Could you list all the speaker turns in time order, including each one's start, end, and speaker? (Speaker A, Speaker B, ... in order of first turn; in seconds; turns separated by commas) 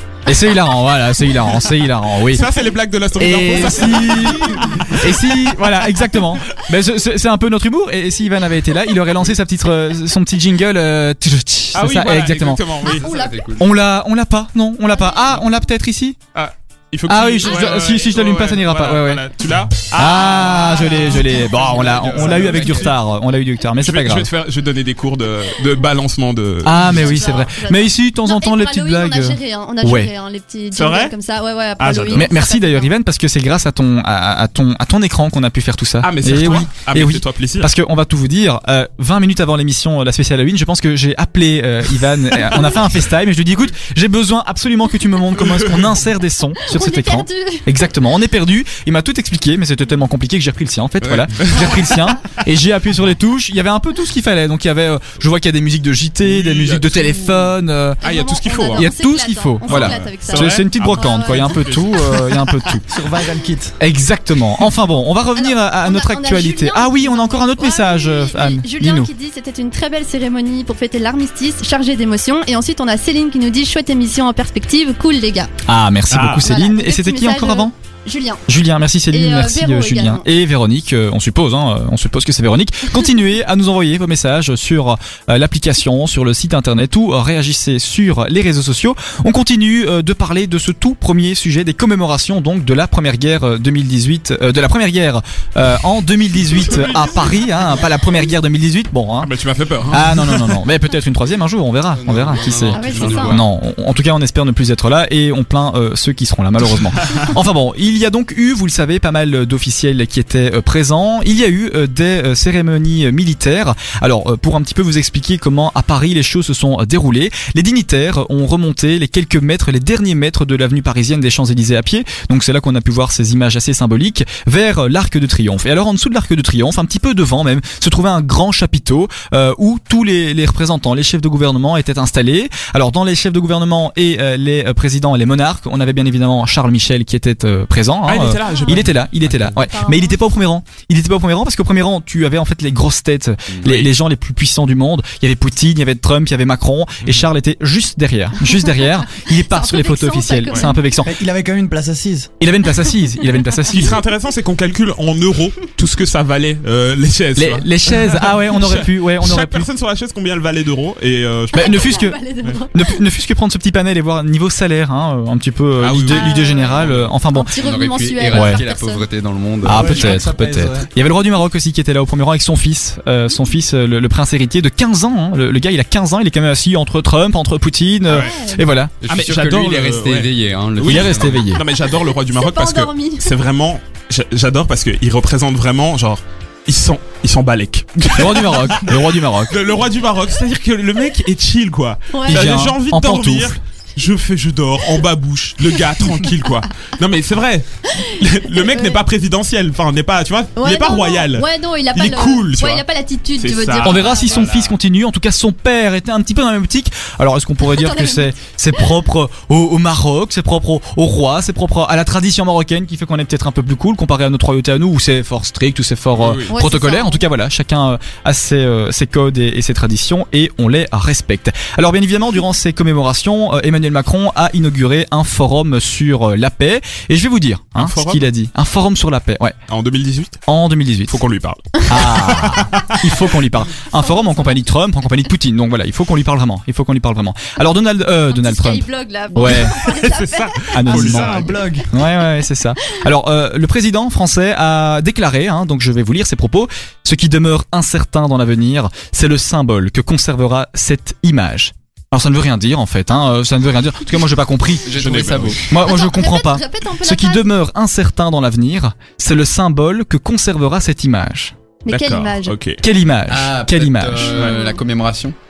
Speaker A: 0.3-2.4, Speaker B: 2.2-5.1, Speaker A: 3.2-12.8, Speaker B: 11.7-13.1, Speaker C: 12.8-13.7, Speaker D: 13.1-13.6, Speaker A: 13.5-16.2, Speaker C: 14.9-15.3, Speaker B: 16.3-22.9, Speaker A: 17.1-19.2, Speaker C: 17.4-17.7, Speaker A: 19.9-24.3, Speaker C: 21.4-22.0, Speaker D: 22.0-22.9, Speaker B: 23.8-27.1, Speaker A: 26.6-30.1, Speaker C: 26.7-32.9, Speaker B: 30.7-31.1, Speaker B: 31.8-32.3, Speaker A: 32.1-58.0, Speaker B: 36.0-37.7, Speaker B: 45.4-45.9, Speaker C: 46.6-47.7, Speaker B: 51.0-51.8, Speaker B: 56.2-57.5, Speaker B: 58.0-58.9, Speaker C: 58.0-62.1, Speaker A: 58.7-62.8, Speaker B: 59.6-62.6, Speaker E: 62.9-63.8, Speaker A: 63.8-69.1, Speaker C: 65.3-75.5, Speaker A: 75.7-77.7, Speaker B: 76.1-76.5, Speaker C: 76.3-78.4, Speaker A: 78.5-99.3, Speaker C: 79.1-80.2, Speaker B: 99.2-100.6, Speaker A: 99.9-151.1, Speaker D: 102.0-103.4, Speaker C: 102.7-103.4, Speaker B: 138.1-139.0, Speaker C: 138.4-138.9, Speaker C: 139.5-140.2, Speaker B: 147.0-147.3, Speaker C: 149.0-151.0, Speaker E: 151.0-152.3, Speaker A: 152.4-154.0, Speaker B: 153.7-162.6, Speaker A: 157.3-159.7, Speaker C: 161.5-163.1, Speaker A: 161.5-162.2, Speaker A: 162.7-167.5, Speaker B: 165.8-167.1, Speaker C: 166.1-169.1, Speaker D: 167.6-170.1, Speaker A: 168.3-168.6, Speaker A: 169.6-178.9, Speaker E: 169.7-170.9, Speaker C: 178.1-178.7, Speaker D: 179.0-181.4, Speaker B: 179.1-202.8, Speaker A: 180.8-181.6, Speaker C: 181.8-183.3, Speaker A: 188.1-189.6, Speaker C: 192.1-192.5, Speaker A: 192.3-193.6, Speaker C: 197.9-199.0, Speaker C: 200.6-204.5, Speaker B: 203.4-204.8, Speaker A: 203.8-229.6, Speaker C: 207.6-208.8, Speaker B: 216.2-216.5, Speaker C: 216.5-217.3, Speaker B: 227.8-228.3, Speaker B: 229.7-230.4, Speaker A: 230.5-231.2, Speaker B: 231.1-233.1, Speaker A: 231.9-239.8, Speaker C: 234.0-234.6, Speaker C: 238.3-240.8, Speaker B: 239.3-241.6, Speaker A: 240.7-254.9, Speaker E: 240.8-241.9, Speaker C: 241.8-242.3, Speaker D: 254.9-255.6, Speaker B: 254.9-255.7, Speaker A: 255.7-261.5, Speaker C: 255.8-257.6, Speaker C: 261.8-262.6, Speaker B: 261.9-262.8, Speaker A: 262.8-264.4, Speaker D: 263.3-265.2, Speaker B: 264.3-264.6, Speaker C: 264.3-264.8